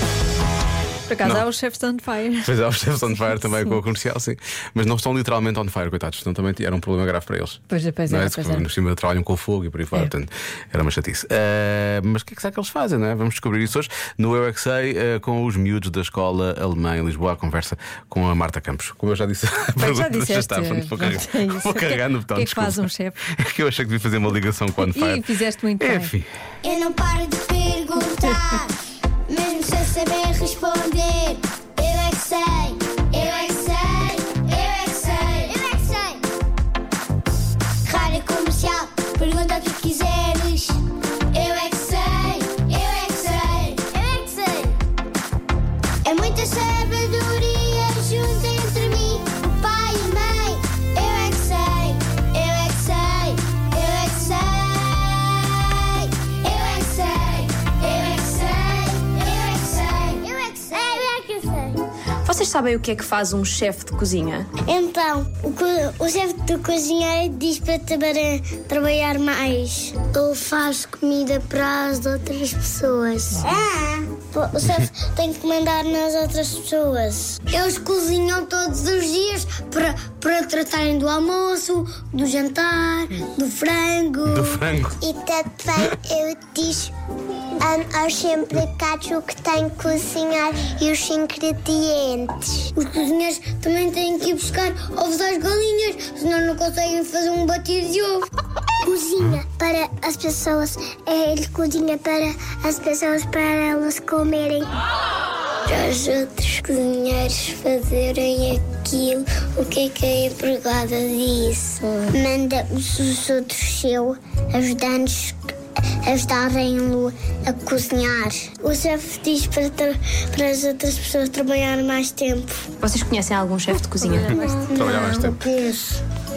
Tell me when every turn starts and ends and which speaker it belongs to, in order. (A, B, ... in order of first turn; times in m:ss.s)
0:01.1-0:02.5 A
0:02.4-0:25.2 B
0:07.7-0:08.6 A
0:19.8-0:23.2 A
0:24.8-0:26.1 A
0:25.8-0:26.3 B
0:26.6-0:28.8 C
0:29.3-0:36.2 C
0:37.8-0:40.8 C
0:41.3-0:44.8 C
0:46.0-1:01.8 C
1:02.2-1:04.5 D
1:04.6-1:26.9 C
1:24.2-1:25.0 B
1:27.6-1:38.3 C
1:38.8-1:44.7 C
1:45.6-2:02.7 C
2:02.8-2:04.3 D
2:04.0-2:04.9 A
2:04.4-2:06.0 C
2:04.7-2:05.4 B